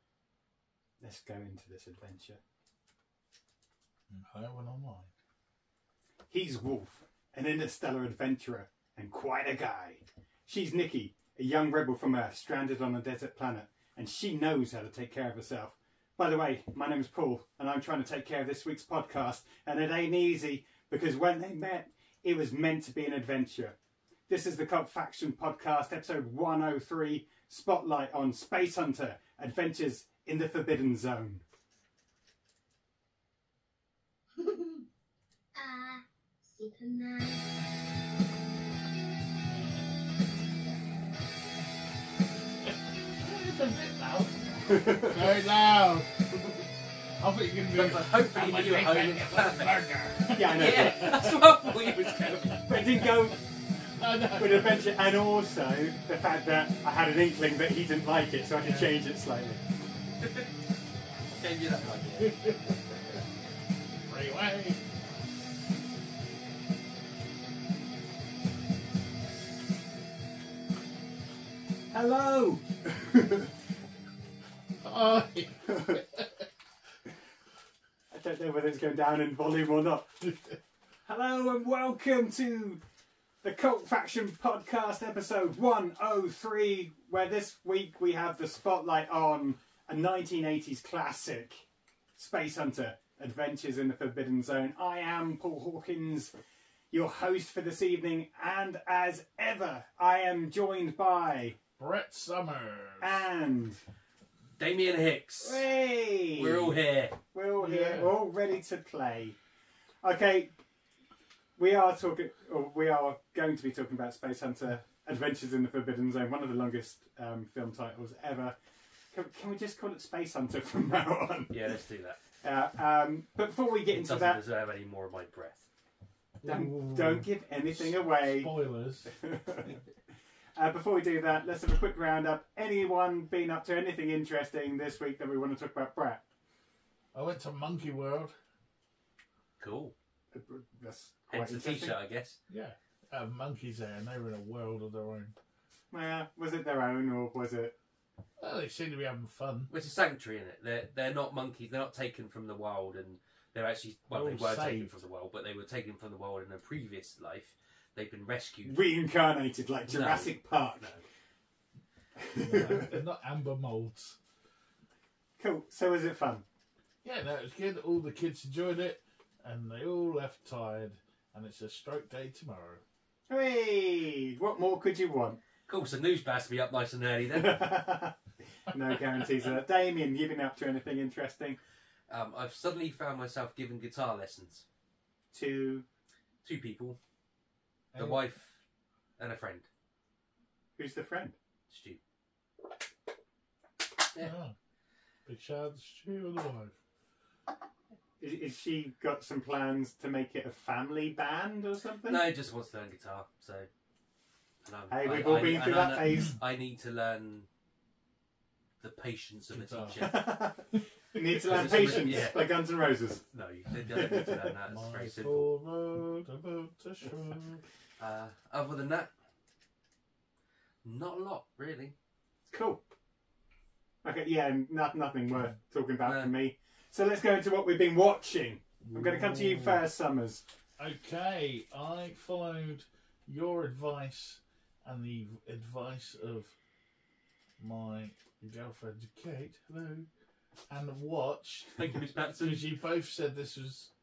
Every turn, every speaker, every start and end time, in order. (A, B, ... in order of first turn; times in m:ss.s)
0:01.0-0:02.4 A
0:04.1-0:05.1 B
0:06.3-0:23.8 A
0:24.3-0:31.4 A
0:35.6-0:37.6 C
0:39.5-0:39.8 B
0:43.2-0:46.1 B
0:44.7-0:45.2 A
0:47.2-0:52.3 B
0:47.7-0:49.8 D
0:50.4-0:51.3 A
0:50.5-0:53.1 D
0:52.7-0:53.4 A
0:54.0-0:54.9 B
0:54.4-0:59.6 A
0:58.6-0:58.9 B
1:01.4-1:02.5 D
1:02.2-1:03.2 B
1:04.0-1:04.8 B
1:11.9-1:13.5 A
1:14.8-1:16.4 B
1:15.6-1:16.0 A
1:18.1-1:20.2 A
1:21.0-1:22.8 A
1:23.4-1:36.3 A
1:36.9-1:41.6 A
1:41.8-1:43.2 B
1:43.0-1:43.8 A
1:44.6-1:45.7 D
1:45.4-1:46.8 A
1:46.4-1:47.2 D
1:47.3-1:49.4 A
1:47.6-1:48.1 B
1:50.0-1:50.5 A
1:51.6-1:58.6 A
1:59.1-2:01.6 A
2:01.5-2:02.2 D
2:02.4-2:04.4 A
2:03.9-2:05.7 D
2:06.4-2:09.1 B
2:06.4-2:08.5 A
2:09.1-2:09.8 A
2:10.6-2:16.2 A
2:17.1-2:18.4 B
2:19.6-2:19.9 D
2:20.3-2:22.0 A
2:21.3-2:22.4 D
2:22.5-2:25.4 B
2:25.9-2:27.8 A
2:28.4-2:29.7 B
2:29.7-2:38.8 D
2:34.1-2:35.0 B
2:38.6-2:40.9 A
2:39.9-2:41.0 D
2:42.2-2:42.9 A
2:42.4-2:44.2 B
2:45.4-2:46.4 A
2:47.0-2:52.8 B
2:53.3-2:55.4 A
2:55.7-2:57.7 D
2:57.3-3:01.6 A
3:02.1-3:04.6 D
3:05.3-3:05.8 A
3:06.4-3:07.0 D
3:07.9-3:08.2 B
3:08.0-3:08.6 D
3:09.2-3:09.7 D
3:10.8-3:11.4 A
3:11.7-3:12.0 D
3:14.2-3:14.6 B
3:15.3-3:16.8 B
3:18.2-3:22.2 A
3:22.1-3:23.7 D
3:24.6-3:27.5 D
3:24.9-3:26.4 A
3:28.8-3:30.3 D
3:29.5-3:30.0 B
3:30.0-3:33.2 A
3:31.2-3:32.4 B
3:31.5-3:32.6 D
3:33.3-3:35.5 D
3:33.9-3:34.4 A
3:34.7-3:37.4 B
3:37.2-3:39.1 D
3:40.8-3:41.9 D
3:42.5-3:42.8 A
3:44.0-3:50.4 A
3:46.0-3:46.3 D
3:48.8-3:49.9 B
3:50.8-3:56.6 B
3:57.6-4:00.1 B
4:00.7-4:01.8 B
4:01.7-4:02.7 D
4:02.4-4:03.9 B